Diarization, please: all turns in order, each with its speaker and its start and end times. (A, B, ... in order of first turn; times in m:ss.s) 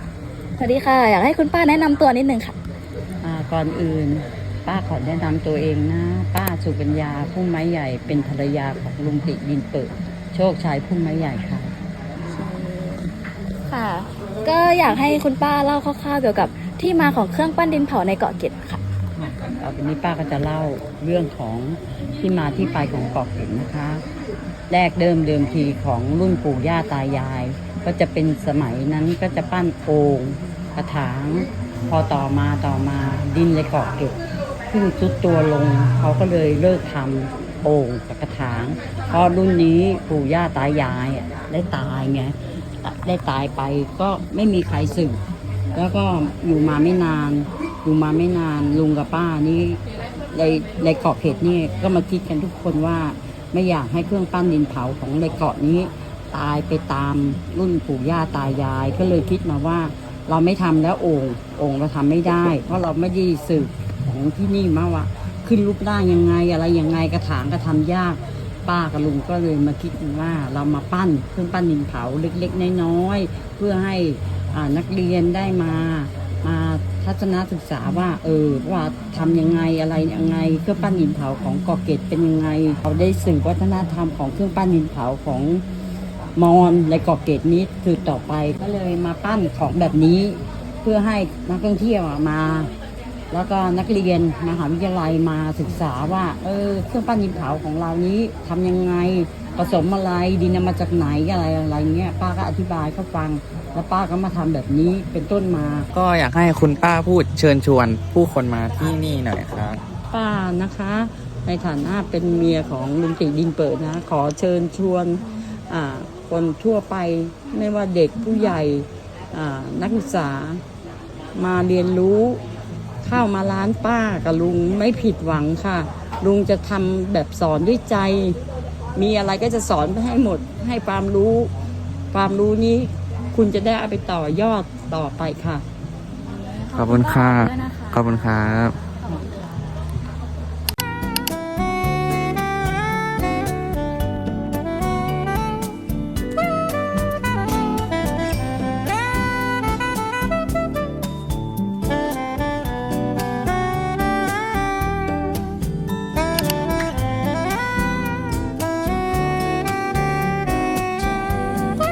0:00.6-0:02.6 A
0:03.2-0:11.7 B
0:12.3-0:13.1 A
0:13.7-0:18.8 A
0:19.2-0:24.0 B
0:24.7-0:34.2 B
0:34.7-0:45.2 B
0:45.8-0:49.8 B
0:50.3-1:25.6 B
1:26.4-1:32.7 B
1:33.3-1:45.9 B
1:45.9-1:49.8 C
1:50.1-2:00.6 B
2:01.4-2:02.4 B
2:03.0-2:08.4 B
2:09.0-2:11.5 B
2:12.1-2:15.6 B
2:16.6-2:18.2 A
2:16.7-2:18.8 C
2:18.9-2:19.3 A